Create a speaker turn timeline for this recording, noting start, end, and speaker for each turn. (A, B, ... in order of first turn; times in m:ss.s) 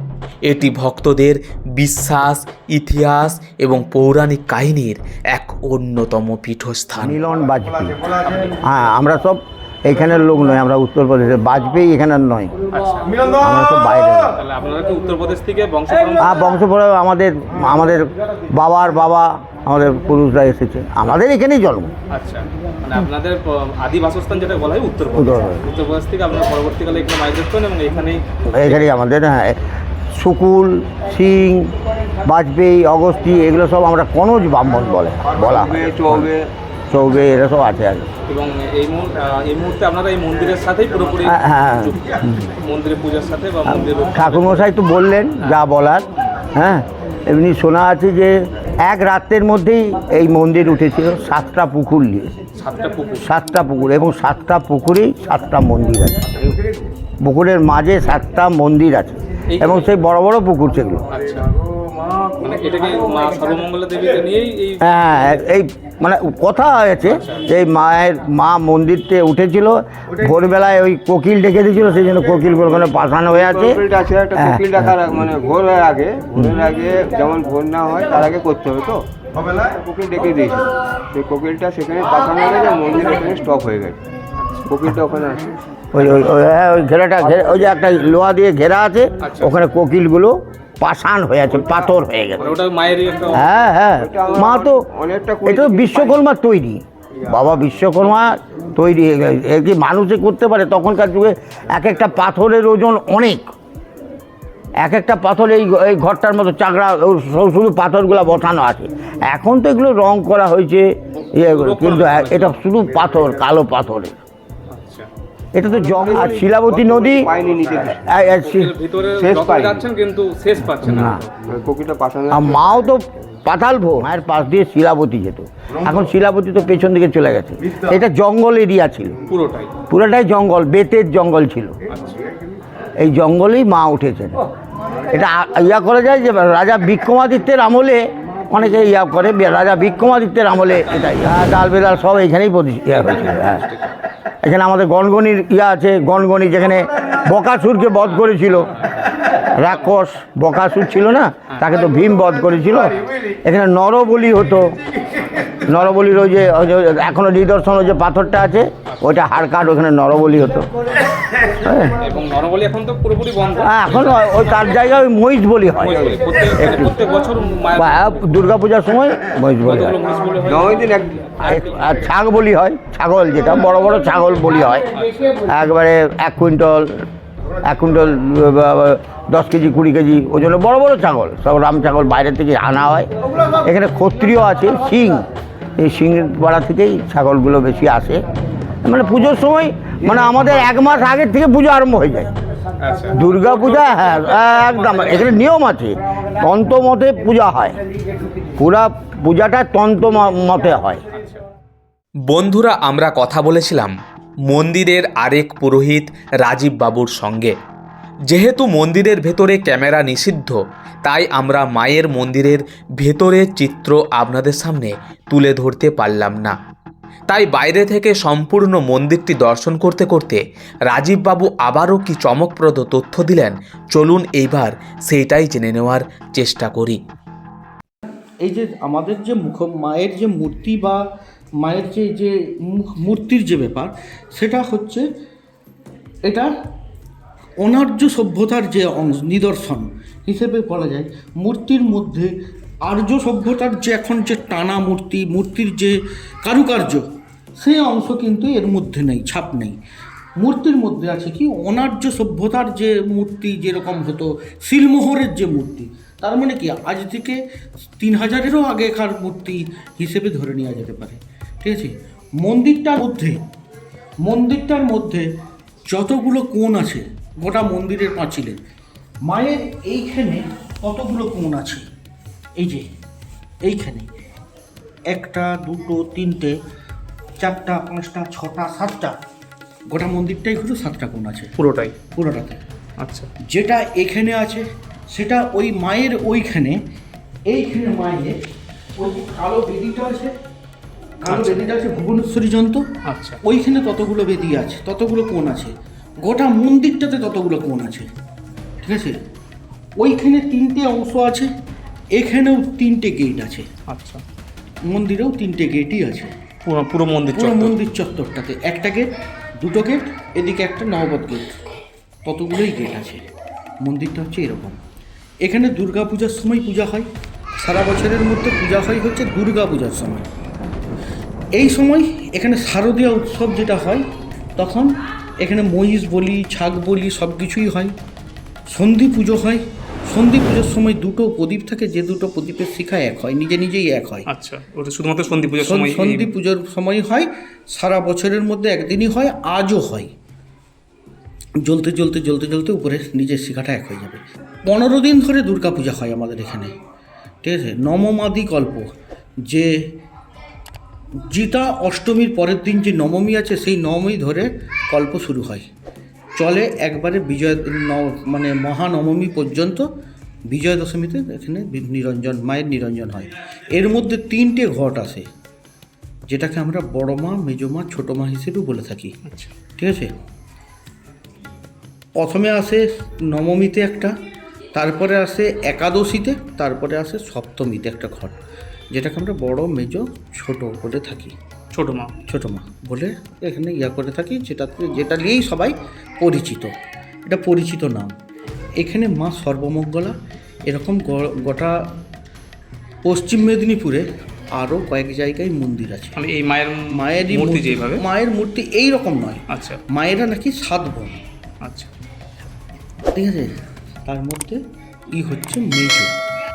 0:00.4-0:07.2 A
0:07.0-0:12.5 B
0:08.2-0:08.6 C
0:12.7-0:13.2 C
0:13.3-0:14.4 B
0:14.4-0:16.4 C
0:16.2-0:21.9 B
0:22.1-0:28.2 C
0:25.1-0:25.6 B
0:28.4-0:29.6 B
0:30.1-0:36.3 B
0:35.3-0:36.5 D
0:36.9-0:38.1 B
0:38.2-0:44.7 C
0:41.2-0:42.5 B
0:43.6-0:52.4 B
0:45.4-0:45.7 C
0:52.5-0:53.3 C
0:53.2-0:56.4 B
0:57.2-1:01.0 B
0:59.5-0:59.9 C
1:01.1-1:01.5 C
1:01.8-1:02.3 D
1:02.4-1:04.8 C
1:04.8-1:13.8 B
1:07.1-1:07.4 C
1:12.6-1:24.0 D
1:14.3-1:15.3 B
1:24.7-1:25.5 D
1:25.9-1:32.4 B
1:29.2-1:29.6 C
1:32.4-1:33.5 C
1:33.3-1:34.8 B
1:34.0-1:36.2 D
1:35.4-1:43.5 B
1:44.8-1:54.2 B
1:51.2-1:52.6 C
1:54.7-1:55.1 C
1:55.5-1:57.3 B
1:55.7-1:58.1 D
1:57.6-2:01.3 C
1:58.0-1:58.7 B
1:59.2-1:59.9 D
2:00.8-2:01.2 B
2:01.5-2:02.9 D
2:02.3-2:09.1 B
2:09.3-2:09.7 C
2:09.9-2:11.7 B
2:11.9-2:12.2 C
2:13.0-2:14.4 B
2:15.1-2:23.6 B
2:20.8-2:22.1 C
2:22.9-2:24.0 C
2:24.4-2:28.7 B
2:28.0-2:29.9 C
2:29.2-2:40.7 B
2:31.5-2:31.8 C
2:41.5-2:42.0 B
2:42.0-2:44.8 C
2:43.6-2:46.0 B
2:45.8-2:48.4 C
2:45.9-2:46.2 D
2:46.6-2:47.0 B
2:47.8-2:50.0 B
2:49.6-2:52.0 C
2:50.4-2:51.4 D
2:51.4-2:54.9 B
2:54.9-2:55.2 C
2:55.4-2:57.0 B
2:57.6-3:05.2 B
3:05.8-3:08.2 B
3:08.8-3:12.3 B
3:12.8-3:15.3 C
3:13.1-3:17.8 B
3:18.5-3:21.0 B
3:22.3-3:23.9 A
3:24.5-3:27.5 A
3:28.3-3:36.5 A
3:37.3-3:47.0 A
3:48.4-3:51.0 E
3:51.6-3:55.0 E
3:56.2-3:56.5 E
3:57.6-4:02.3 E
4:02.8-4:07.0 E
4:07.6-4:09.8 E
4:10.4-4:23.4 E
4:24.2-4:25.3 E
4:25.9-4:28.6 E
4:29.2-4:31.8 E
4:32.6-4:32.9 E
4:33.6-4:34.1 E
4:35.1-4:36.6 E
4:37.4-4:39.2 E
4:39.9-4:41.5 E
4:41.6-4:41.9 C
4:42.1-4:42.6 E
4:43.0-4:43.3 C
4:43.5-4:46.8 E
4:47.5-4:48.4 E
4:49.0-4:50.3 E
4:51.2-4:52.8 E
4:51.3-4:51.6 C
4:53.0-4:53.4 C
4:53.4-4:58.1 E
4:58.8-4:59.1 E
5:00.0-5:01.5 E
5:02.1-5:03.7 E
5:03.9-5:04.2 C
5:04.9-5:06.3 E
5:06.6-5:07.8 C
5:07.3-5:11.6 E
5:12.2-5:13.2 E
5:13.8-5:14.8 E
5:15.4-5:17.1 E
5:17.6-5:20.3 E
5:21.5-5:27.9 E
5:28.7-5:34.3 E
5:34.2-5:36.3 C
5:35.6-5:40.1 E
5:41.6-5:46.8 E
5:47.4-5:48.9 E
5:49.4-5:49.9 E
5:51.3-5:55.7 E
5:56.4-5:59.9 E
6:00.5-6:05.2 E
6:06.3-6:09.1 E
6:09.2-6:09.5 C
6:09.8-6:10.1 E
6:12.2-6:14.1 E
6:14.8-6:18.4 E
6:18.9-6:21.3 E
6:21.7-6:22.1 C
6:22.2-6:26.7 E
6:27.2-6:28.1 E
6:28.8-6:30.1 E
6:30.6-6:31.9 E
6:33.0-6:36.1 E
6:36.2-6:38.0 C
6:37.0-6:41.2 E
6:39.5-6:39.8 C
6:41.6-6:41.9 C
6:43.1-6:44.6 E
6:45.1-6:46.2 E